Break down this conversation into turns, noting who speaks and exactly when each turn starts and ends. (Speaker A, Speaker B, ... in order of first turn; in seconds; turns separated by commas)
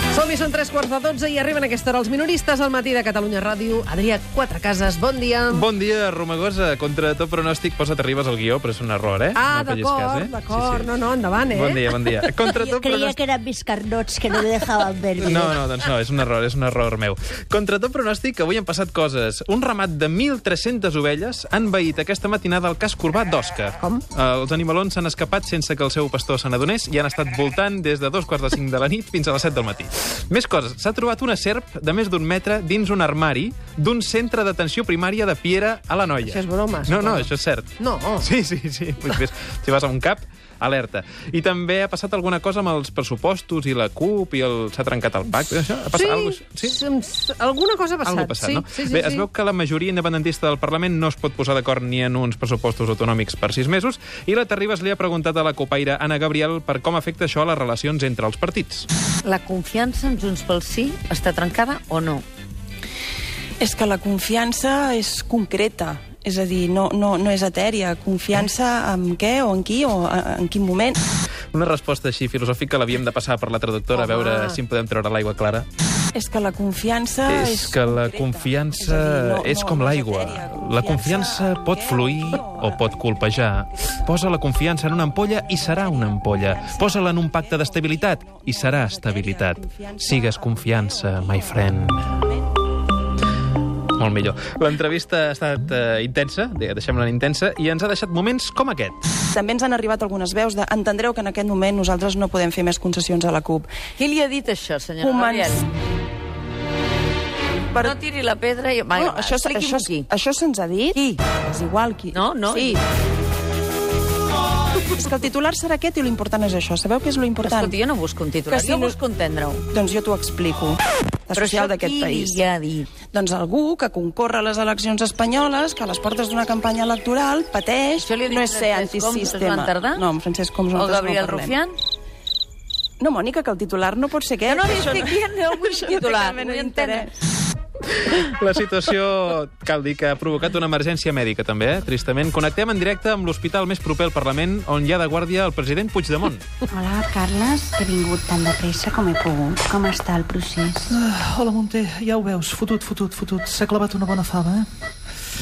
Speaker A: 0.1-5.7, Speaker B: 5.5-10.9, Speaker A: 9.3-11.9, Speaker B: 11.5-13.2, Speaker C: 12.7-14.2, Speaker C: 14.7-15.5, Speaker B: 15.2-46.8, Speaker A: 36.2-38.2, Speaker A: 45.9-49.3, Speaker B: 48.0-58.9, Speaker D: 59.2-62.2, Speaker E: 63.6-71.0, Speaker B: 71.5-75.7, Speaker A: 73.9-74.6, Speaker E: 76.1-84.1, Speaker B: 77.2-92.2, Speaker E: 85.5-91.7, Speaker B: 94.0-99.0, Speaker E: 99.3-103.7, Speaker D: 104.0-105.6, Speaker E: 105.0-105.7, Speaker E: 107.7-108.0, Speaker D: 107.8-110.1, Speaker E: 108.9-112.8, Speaker D: 112.1-112.8, Speaker E: 114.8-117.8, Speaker D: 117.4-119.6, Speaker E: 118.5-119.0, Speaker E: 119.7-122.5, Speaker D: 121.3-122.9, Speaker E: 123.0-131.6, Speaker D: 128.0-130.1, Speaker D: 130.7-131.8, Speaker E: 133.0-137.1, Speaker D: 134.5-137.1, Speaker B: 138.0-146.4, Speaker F: 146.7-150.9, Speaker G: 150.9-154.7